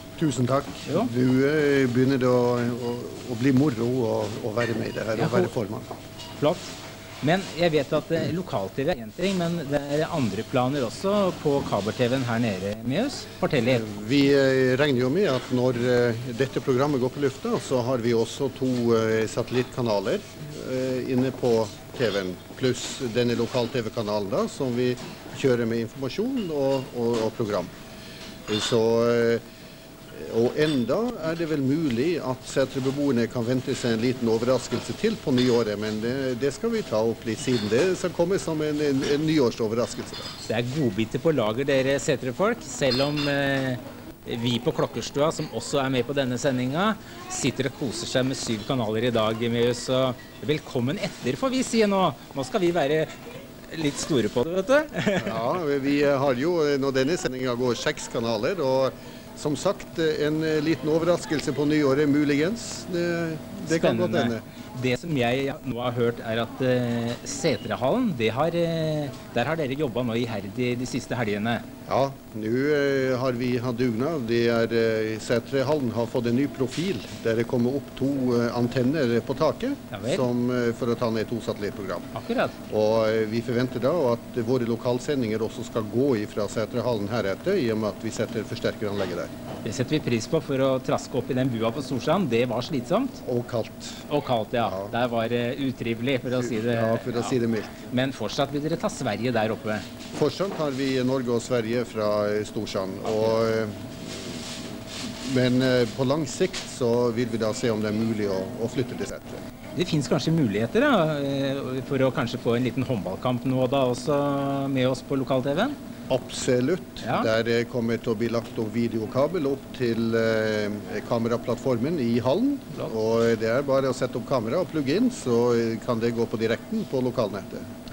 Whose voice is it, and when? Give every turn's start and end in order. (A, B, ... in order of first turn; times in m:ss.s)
0:00.2-0:05.9 A
0:05.2-0:05.5 B
0:06.4-0:13.8 B
0:13.6-0:27.7 A
0:28.5-0:29.4 A
0:30.1-0:40.3 A
0:40.4-0:53.1 B
0:53.7-0:55.6 B
0:55.2-1:04.4 A
1:03.6-1:11.6 B
1:11.9-1:22.1 A
1:19.9-1:20.2 B
1:22.1-1:22.6 B
1:22.7-1:29.3 A
1:29.6-1:33.2 B
1:33.2-1:34.0 A
1:34.1-1:39.8 B
1:34.6-1:34.9 A
1:36.4-1:37.8 A
1:40.1-1:44.5 A
1:43.1-1:43.4 B
1:45.0-1:49.4 A
1:49.7-1:55.8 B
1:56.1-2:07.6 A
1:57.0-1:57.3 B